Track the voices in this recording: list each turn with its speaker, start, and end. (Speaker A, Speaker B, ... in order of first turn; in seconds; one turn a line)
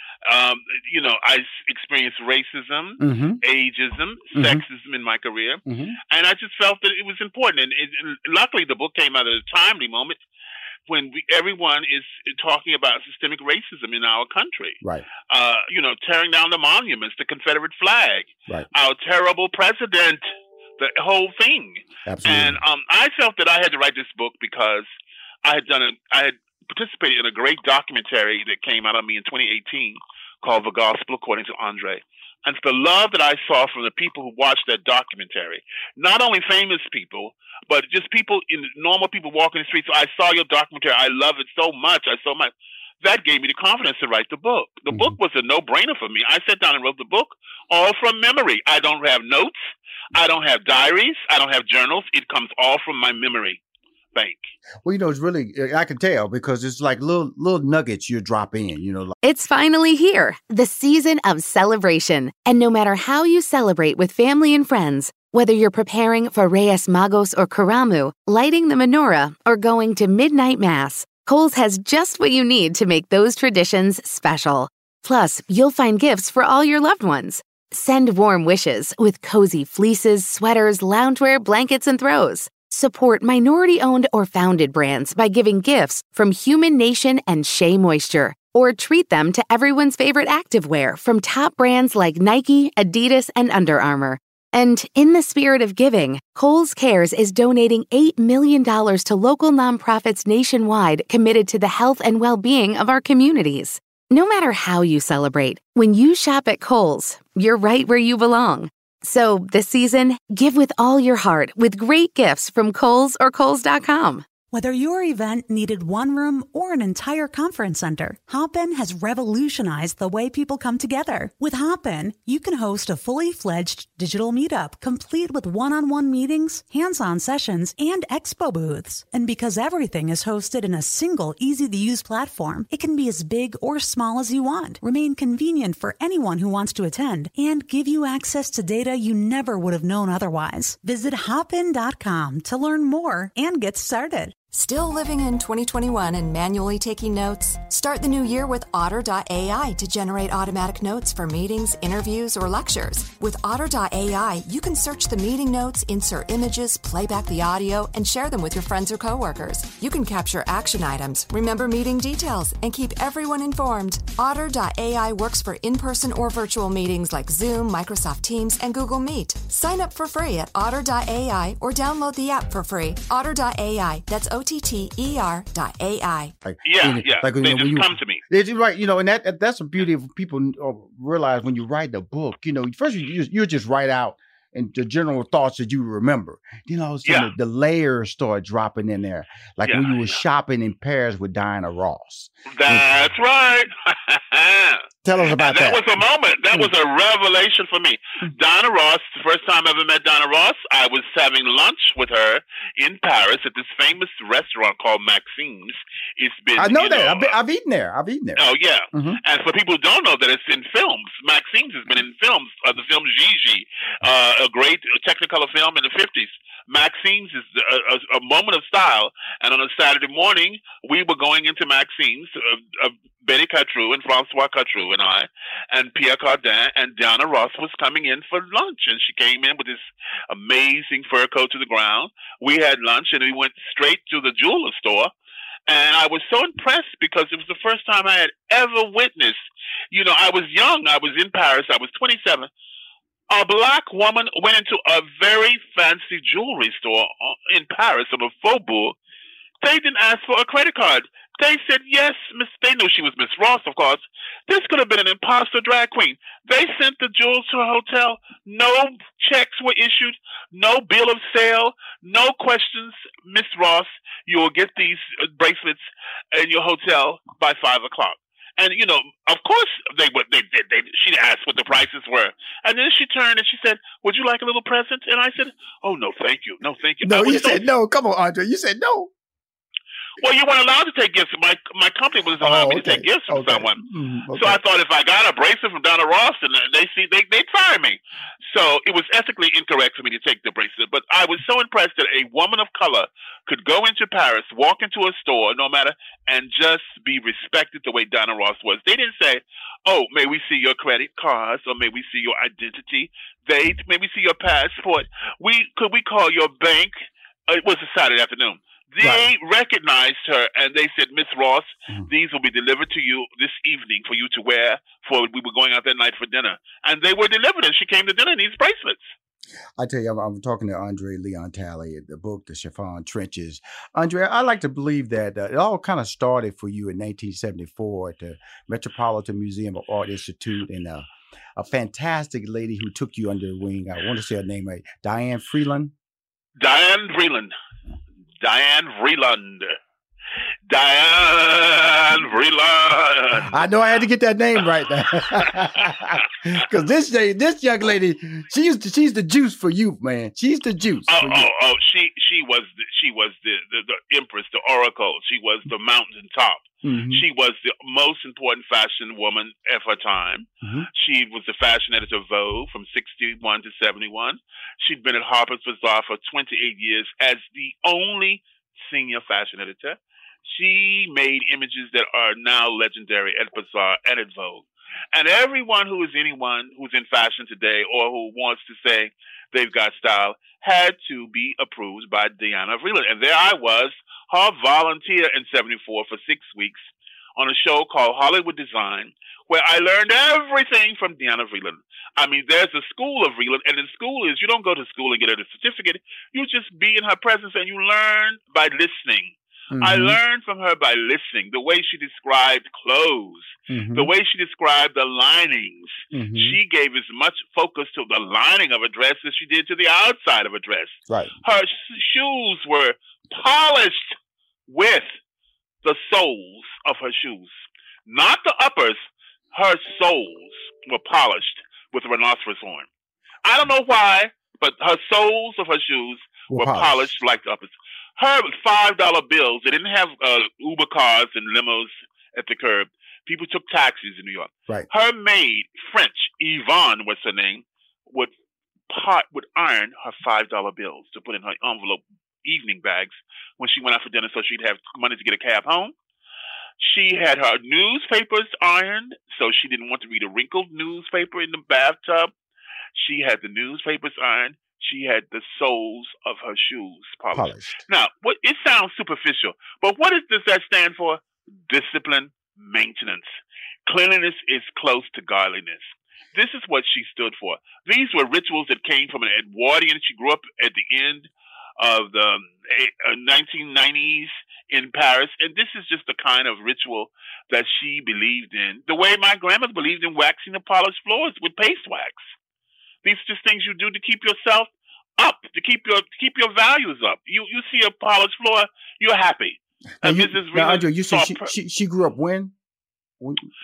Speaker A: 0.2-10.2
Speaker B: 3.0-3.4
Speaker B: 4.3-4.6
Speaker B: 5.7-6.0
Speaker A: 10.9-24.9
Speaker B: 14.8-15.1
Speaker B: 22.1-22.6
Speaker A: 25.4-53.6
Speaker B: 44.9-45.2
Speaker A: 54.1-54.5
Speaker B: 54.8-59.1
Speaker C: 59.2-114.3
Speaker D: 114.5-144.3
Speaker E: 144.5-176.3
Speaker B: 176.4-192.9
Speaker A: 176.6-178.2
Speaker A: 187.1-187.3
Speaker A: 189.7-190.2
Speaker A: 192.5-207.4
Speaker B: 195.0-195.9
Speaker B: 206.6-209.2
Speaker A: 208.4-235.1
Speaker A: 235.7-239.4
Speaker A: 239.9-242.5
Speaker A: 243.3-249.0
Speaker A: 249.6-277.6
Speaker B: 277.0-279.1
Speaker A: 280.2-283.8
Speaker B: 282.4-284.6
Speaker A: 284.4-306.9
Speaker A: 307.5-319.1
Speaker B: 309.0-309.3
Speaker B: 319.8-335.9
Speaker A: 336.6-337.5
Speaker A: 338.4-339.8
Speaker A: 340.7-343.6
Speaker B: 343.5-351.5
Speaker A: 351.1-386.9
Speaker B: 356.8-357.2
Speaker A: 387.4-414.2
Speaker B: 399.7-400.2
Speaker B: 403.7-404.1
Speaker B: 406.1-406.6
Speaker B: 411.1-411.3
Speaker A: 414.7-415.2
Speaker A: 415.8-417.5
Speaker A: 418.1-422.9
Speaker A: 423.4-438.3
Speaker B: 426.5-427.1
Speaker A: 438.9-445.9
Speaker A: 446.8-452.3
Speaker A: 452.9-482.2
Speaker B: 457.3-457.8
Speaker A: 483.0-491.5
Speaker B: 490.0-492.5
Speaker B: 493.2-493.5